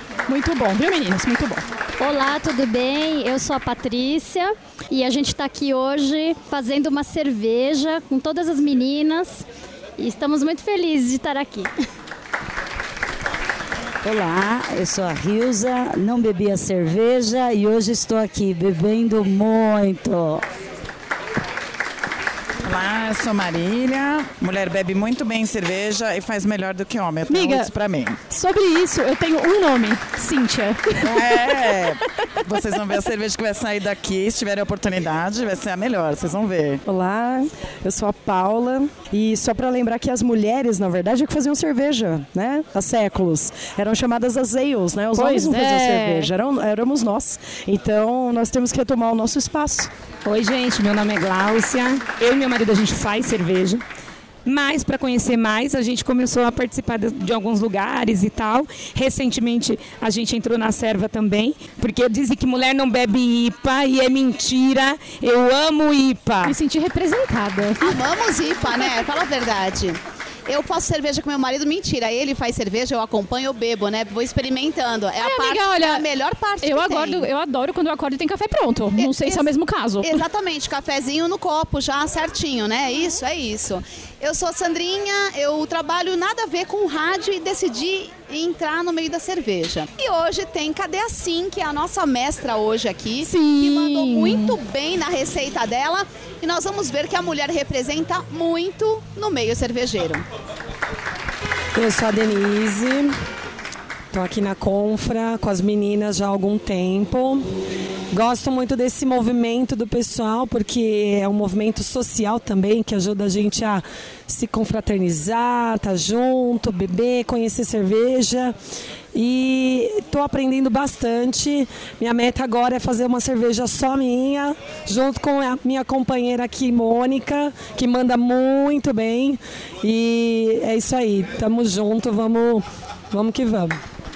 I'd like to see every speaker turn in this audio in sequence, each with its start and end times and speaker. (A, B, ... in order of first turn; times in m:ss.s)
0:00.3-0:01.6 A
0:02.0-0:09.4 B
0:10.0-0:11.7 B
0:14.0-0:20.4 C
0:22.6-0:28.2 D
0:27.3-0:27.7 A
0:28.3-0:31.8 A
0:31.0-0:36.8 D
0:36.8-0:49.9 E
0:45.2-0:46.3 A
0:50.2-0:53.8 F
0:54.4-1:06.5 F
1:06.4-1:07.9 A
1:07.8-1:17.3 G
1:15.2-1:16.0 A
1:16.6-1:20.2 A
1:19.0-1:19.5 G
1:20.0-1:40.2 G
1:33.2-1:34.6 A
1:41.7-1:43.1 H
1:44.1-1:47.4 H
1:48.1-1:58.5 H
1:59.1-2:13.8 H